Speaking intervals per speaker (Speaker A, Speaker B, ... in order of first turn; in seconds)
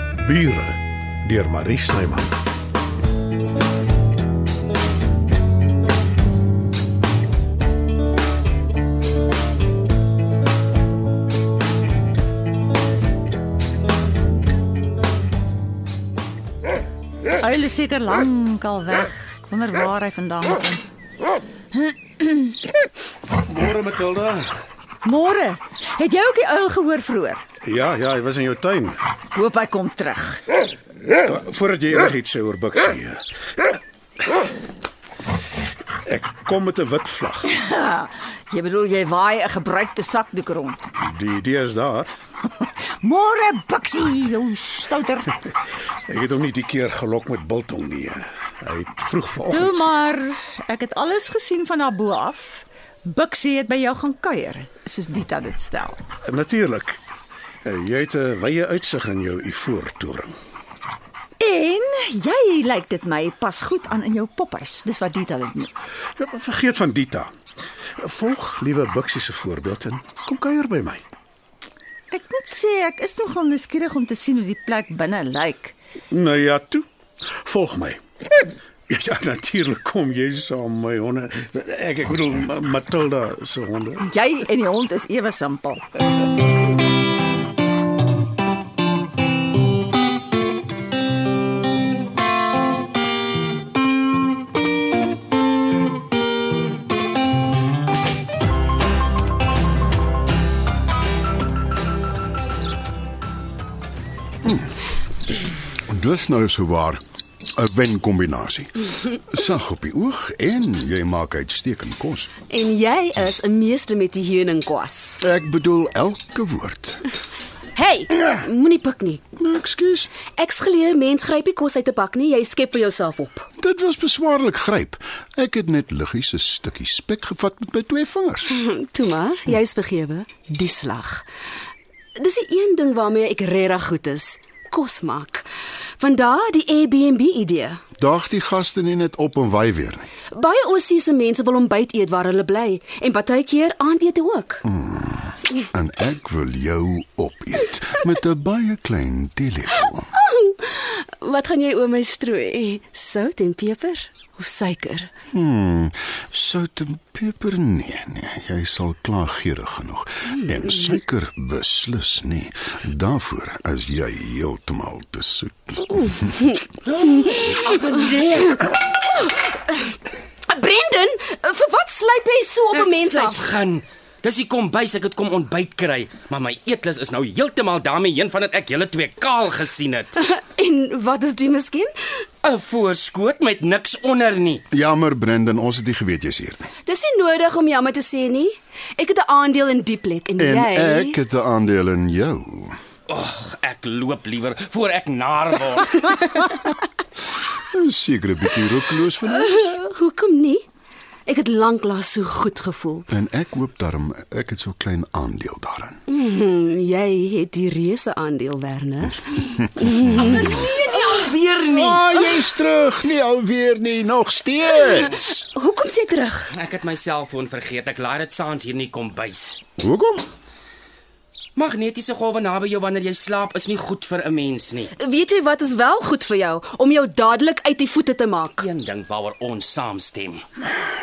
Speaker A: 0.2-2.4, 23.5-24.5, 27.6-29.0, 31.2-33.2, 36.0-37.5, 41.0-42.1, 46.1-49.8, 56.2-57.0, 57.6-60.3, 66.2-67.3, 68.0-71.0, 76.1-76.8, 77.4-78.0, 78.9-84.0
Speaker B: 17.4-20.8, 21.7-22.6, 25.0-27.4, 29.3-30.4, 37.5-40.9, 42.5-45.4, 49.5-56.0, 61.4-65.7, 72.1-75.8, 84.0-85.9
Speaker C: 104.4-104.7, 105.9-107.0, 107.5-112.3, 115.2-117.0, 119.4-120.1, 123.6-128.5, 138.0-140.1, 144.7-150.1, 155.3-166.5, 184.7-186.7, 190.4-192.7, 197.7-199.7, 203.1-206.0, 210.2-210.5, 211.7-215.3, 219.8-220.3
Speaker D: 112.5-115.2, 117.7-119.2, 120.3-123.5, 128.5-131.2, 132.2-135.4, 136.0-137.8, 140.3-144.6, 150.3-155.1, 169.2-169.9, 170.5-173.4, 180.2-181.9, 186.8-191.2, 199.3-200.6, 201.2-203.1, 206.1-211.3, 214.9-216.5, 225.0-228.7
Speaker E: 166.8-168.8, 172.7-180.2, 182.4-184.6, 193.1-196.5, 210.1-212.0, 216.5-219.6, 221.6-224.9, 228.6-230.4